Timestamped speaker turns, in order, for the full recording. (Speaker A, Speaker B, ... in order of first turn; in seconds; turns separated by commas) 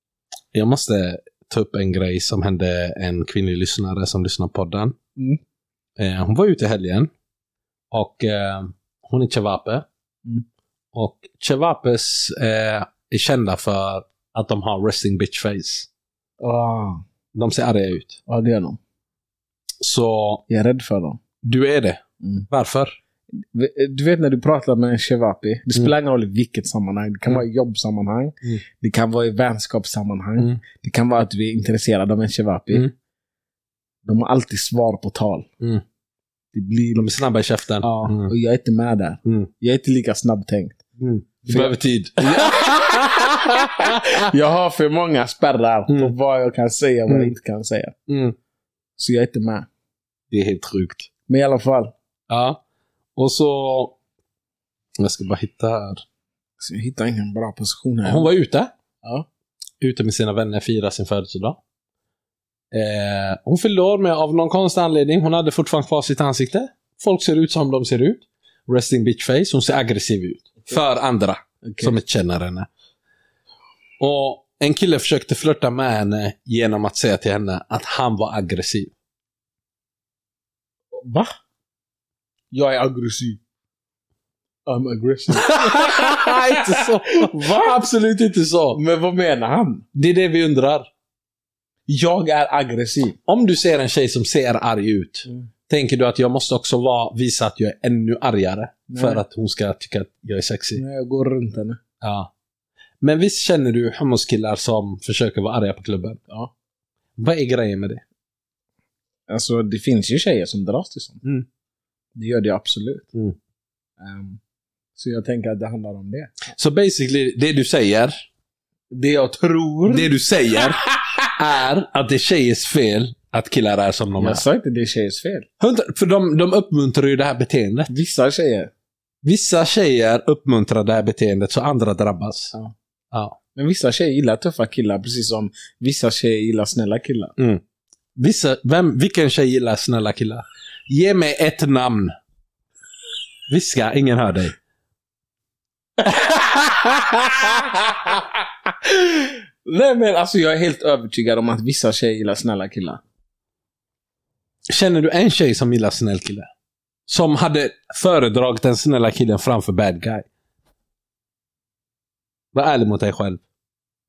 Speaker A: 0.5-5.0, Speaker A: 6.0-7.1, Speaker A: 7.9-9.8, Speaker A: 10.9-15.9, Speaker B: 16.4-17.0, Speaker A: 17.3-18.2, Speaker B: 18.3-18.8, Speaker A: 19.8-20.4, Speaker B: 20.5-21.2, Speaker A: 21.4-23.0, Speaker B: 22.2-22.5, Speaker B: 23.4-32.9, Speaker B: 34.0-35.5, Speaker B: 36.5-37.1, Speaker A: 37.0-38.3, Speaker B: 37.8-40.8, Speaker A: 39.2-39.5, Speaker A: 41.0-44.1, Speaker B: 41.5-47.9, Speaker A: 47.1-47.3, Speaker A: 48.1-48.4, Speaker B: 49.0-49.7, Speaker A: 50.3-51.1, Speaker B: 51.3-51.9, Speaker A: 52.3-52.6, Speaker A: 53.1-54.0, Speaker A: 55.0-56.0, Speaker B: 56.6-58.3, Speaker A: 58.0-58.7, Speaker A: 59.8-61.6, Speaker A: 62.7-72.7, Speaker B: 71.6-72.0, Speaker A: 74.0-78.9, Speaker B: 81.0-81.3, Speaker B: 82.5-83.4, Speaker B: 84.7-87.8, Speaker A: 85.3-88.8, Speaker B: 88.7-89.8, Speaker A: 89.9-90.9, Speaker B: 91.9-93.2, Speaker A: 93.2-100.8, Speaker B: 98.9-99.2, Speaker B: 100.8-101.8, Speaker A: 102.0-102.3, Speaker A: 103.0-106.2, Speaker A: 107.2-108.0, Speaker B: 109.3-111.2, Speaker B: 112.2-113.1, Speaker B: 114.0-114.4, Speaker B: 115.0-116.4, Speaker A: 116.5-118.2, Speaker B: 118.9-120.1, Speaker A: 119.9-124.4, Speaker B: 120.8-121.1, Speaker B: 124.2-125.5, Speaker A: 125.6-127.9, Speaker B: 127.9-128.7, Speaker A: 129.2-132.5, Speaker A: 133.1-133.4, Speaker B: 133.5-137.3, Speaker A: 138.2-142.1, Speaker A: 143.5-144.6, Speaker B: 146.0-148.3, Speaker B: 148.8-153.0, Speaker A: 154.7-156.5, Speaker A: 157.1-160.2, Speaker A: 162.5-163.4